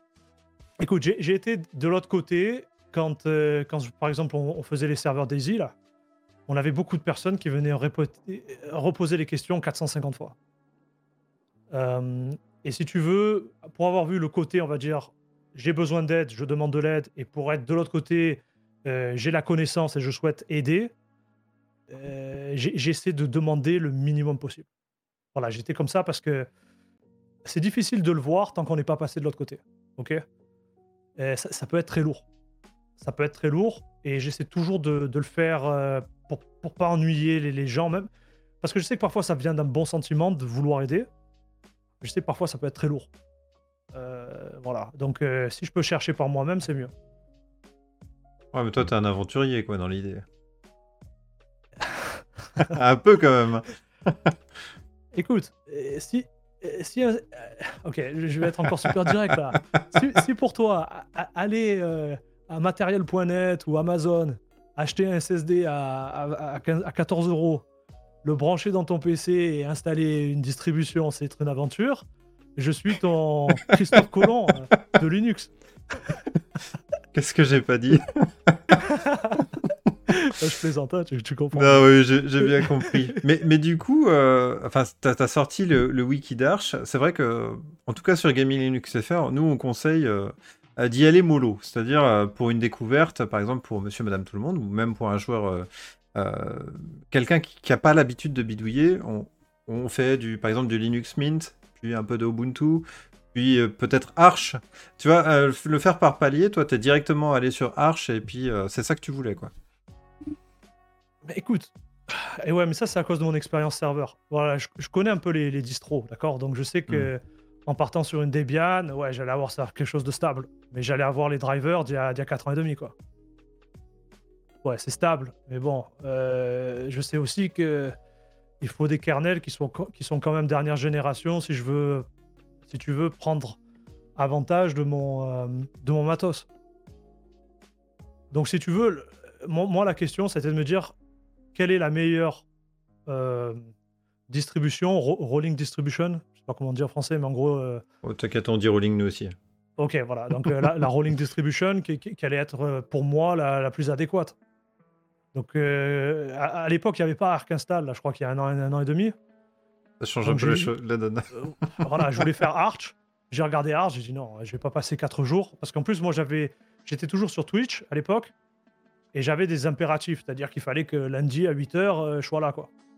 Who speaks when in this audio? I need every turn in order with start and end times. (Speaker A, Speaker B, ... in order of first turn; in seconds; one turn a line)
Speaker A: 0.8-5.7
Speaker A: 6.5-10.3
Speaker A: 11.7-20.9
Speaker A: 21.9-24.7
Speaker A: 25.3-26.5
Speaker A: 27.4-30.2
Speaker A: 31.2-32.2
Speaker A: 33.0-38.1
Speaker A: 38.6-41.1
Speaker A: 42.0-43.1
Speaker A: 43.9-46.9
Speaker B: 48.5-50.2
Speaker A: 51.8-52.7
Speaker B: 52.6-54.3
Speaker A: 55.1-67.7
Speaker A: 68.2-76.1
Speaker B: 77.1-78.9
Speaker A: 78.8-79.5
Speaker A: 80.1-83.2
Speaker B: 81.5-109.5
Speaker A: 111.2-123.0
Speaker A: 124.6-128.0
Speaker A: 128.6-132.1
Speaker A: 132.7-133.6
Speaker A: 134.2-136.5
Speaker A: 138.3-140.9
Speaker A: 141.6-142.4
Speaker A: 143.1-143.7
Speaker A: 144.3-147.8
Speaker B: 148.0-149.4
Speaker A: 149.8-154.4
Speaker A: 155.3-159.2
Speaker B: 160.0-162.3
Speaker A: 160.2-160.7
Speaker A: 161.4-168.3
Speaker A: 169.1-172.7